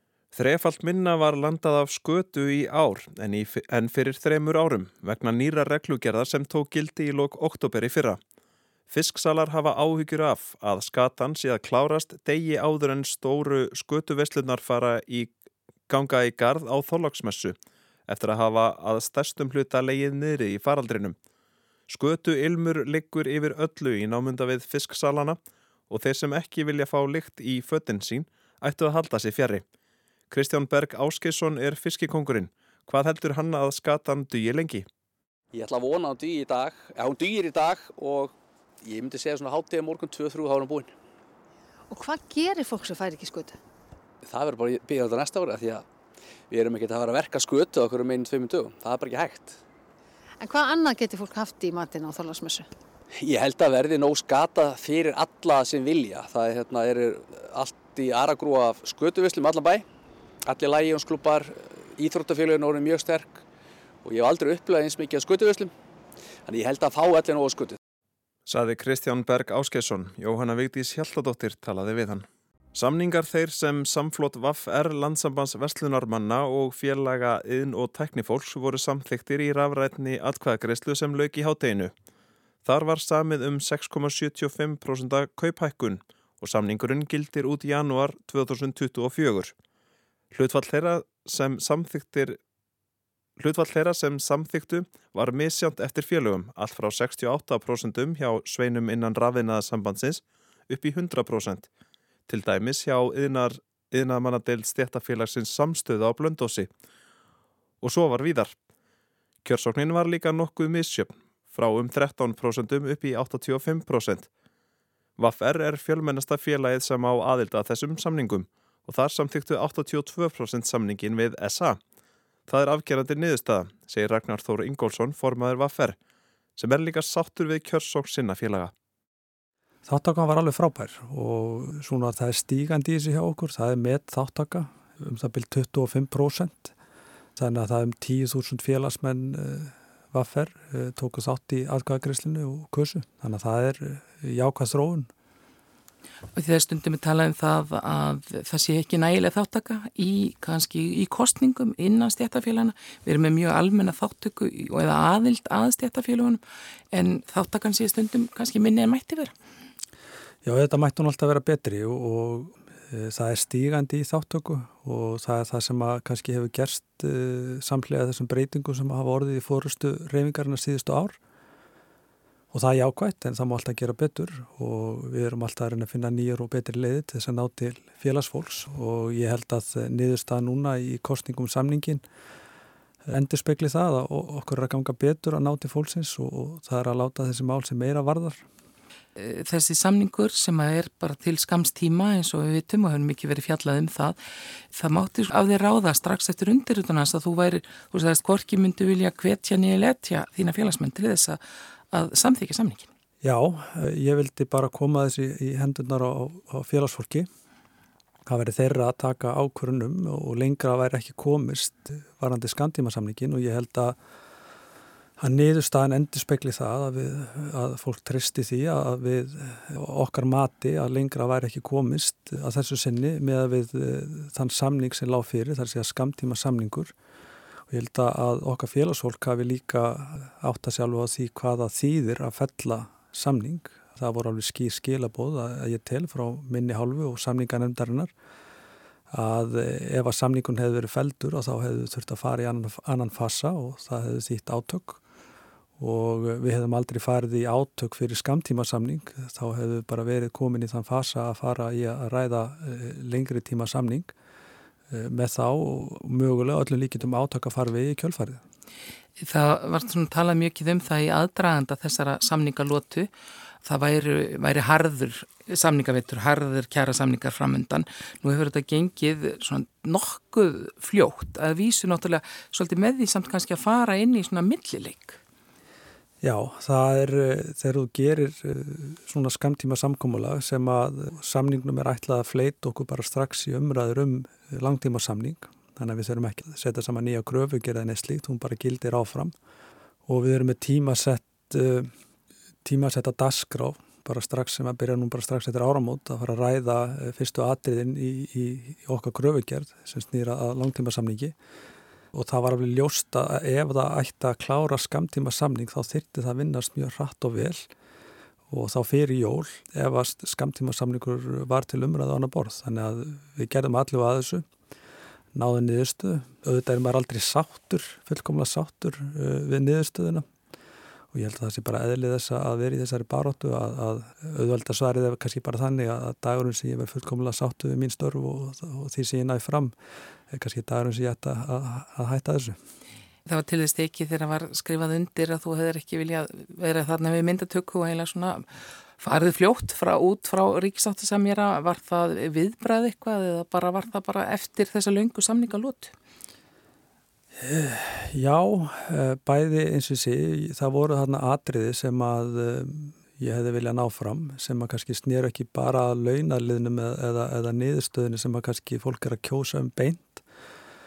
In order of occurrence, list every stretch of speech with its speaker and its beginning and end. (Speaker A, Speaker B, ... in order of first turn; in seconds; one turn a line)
Speaker A: 0.3-8.2
Speaker A: 8.9-15.3
Speaker A: 15.9-17.6
Speaker A: 18.1-21.2
Speaker A: 21.9-25.4
Speaker A: 25.9-29.6
Speaker A: 30.3-34.9
Speaker B: 35.5-40.9
Speaker C: 41.9-43.6
Speaker B: 44.2-45.9
Speaker B: 46.5-49.6
Speaker C: 50.4-52.7
Speaker B: 53.2-59.9
Speaker B: 60.5-63.4
Speaker B: 64.0-65.7
Speaker B: 66.5-67.8
Speaker A: 68.5-81.9
Speaker A: 82.7-89.5
Speaker A: 90.3-92.4
Speaker A: 93.4-101.7
Speaker A: 102.3-106.7
Speaker A: 107.8-108.5
Speaker A: 109.4-114.3
Speaker A: 115.2-121.8
Speaker A: 122.5-126.0
Speaker A: 126.6-128.7
Speaker D: 129.9-136.7
Speaker D: 137.4-145.1
Speaker E: 146.3-159.3
Speaker D: 160.4-171.2
Speaker D: 172.5-182.0
Speaker D: 183.1-188.4
Speaker E: 189.2-194.2
Speaker E: 194.7-202.9
Speaker D: 203.2-207.3
Speaker D: 208.3-214.0
Speaker D: 215.2-226.9
Speaker D: 227.7-238.1
Speaker D: 239.1-245.0
Speaker D: 245.8-254.1
Speaker D: 254.9-258.4
Speaker E: 259.2-263.1
Speaker E: 263.6-275.2
Speaker D: 276.2-289.3
Speaker D: 290.1-291.9
Speaker D: 292.6-301.4
Speaker D: 302.1-307.7
Speaker D: 308.5-314.5
Speaker D: 315.3-320.3
Speaker D: 321.1-329.8
Speaker D: 330.3-332.6
Speaker E: 333.3-338.5
Speaker E: 339.0-345.9
Speaker D: 347.4-360.2